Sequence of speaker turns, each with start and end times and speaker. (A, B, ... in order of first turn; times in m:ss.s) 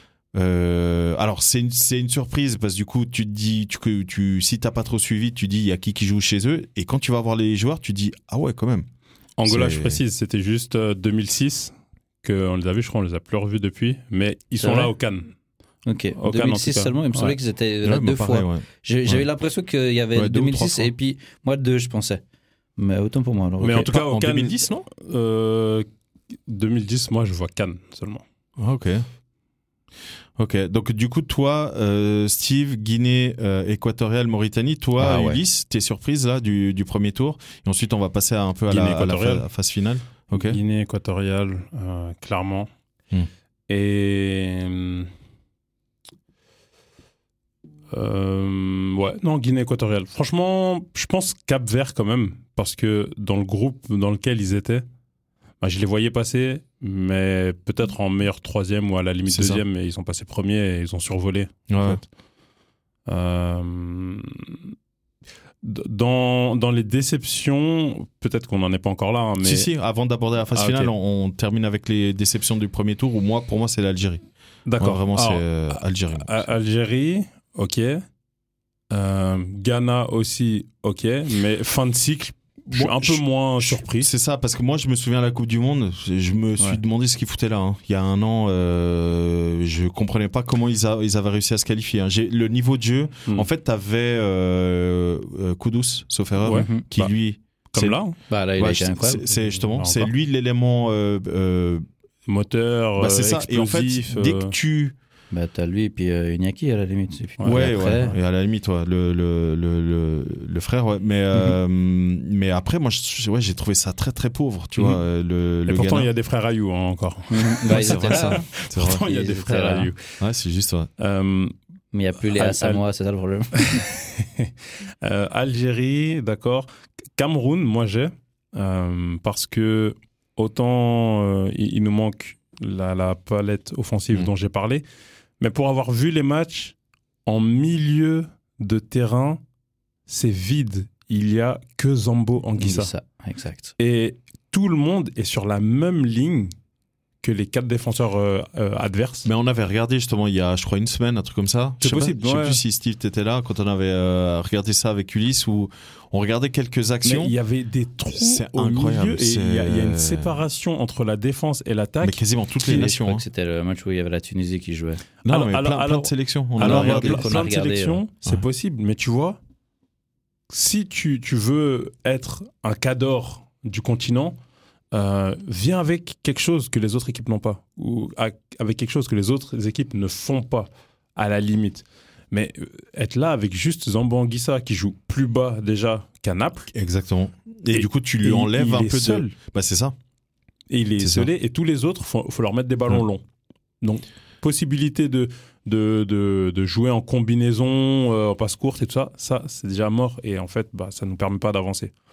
0:00.4-0:08.9 A
0:09.4-0:11.7 B
0:09.5-0:10.0 A
0:12.2-0:15.3 B
0:14.6-0:14.9 C
0:15.9-0:22.2 C
0:16.2-0:17.4 B
0:17.8-0:19.2 A
0:20.2-0:20.9 A
0:22.8-0:23.9 C
0:23.6-0:25.9 B
0:23.7-0:24.9 A
0:26.5-0:28.2 B
0:28.6-0:29.1 A
0:30.4-0:40.6 A
0:35.0-0:35.4 C
0:38.7-0:39.5 B
0:40.3-0:42.7 B
0:43.7-0:45.1 B
0:47.9-0:54.8 B
0:55.6-1:02.0 B
0:59.3-0:59.6 A
1:01.7-1:02.0 A
1:03.1-1:04.7 B
1:05.6-1:09.7 B
1:09.4-1:14.2 A
1:10.5-1:10.9 B
1:14.7-1:18.0 B
1:14.8-1:16.4 A
1:18.9-1:24.1 B
1:22.7-1:38.0 A
1:36.4-1:37.1 B
1:36.5-1:36.8 C
1:37.7-1:38.2 B
1:38.3-1:39.3 C
1:38.6-1:41.8 A
1:39.7-1:40.1 B
1:42.3-1:44.6 B
1:43.0-1:45.0 A
1:45.3-1:48.1 C
1:47.4-1:47.9 B
1:47.4-1:56.1 A
1:54.8-1:55.0 B
1:55.7-2:00.0 B
1:57.3-1:58.5 C
1:57.7-1:59.0 A
1:59.0-1:59.9 C
2:00.2-2:00.9 A
2:01.0-2:01.5 B
2:01.9-2:03.9 C
2:02.2-2:02.8 B
2:03.5-2:14.8 B
2:15.4-2:16.7 B
2:17.3-2:19.4 B
2:20.1-2:22.9 B
2:22.6-2:23.7 C
2:23.8-2:26.5 B
2:27.2-2:29.3 B
2:29.2-2:37.4 A
2:31.8-2:32.6 B
2:37.0-2:43.0 B
2:38.1-2:40.4 A
2:42.0-2:43.2 A
2:42.7-2:45.0 C
2:45.2-2:47.4 A
2:45.3-2:49.4 B
2:46.6-2:48.0 C
2:50.5-2:54.4 B
2:54.9-3:06.7 B
3:06.7-3:10.0 A
3:07.7-3:09.3 B
3:10.7-3:13.2 B
3:11.0-3:11.3 A
3:13.8-3:21.9 B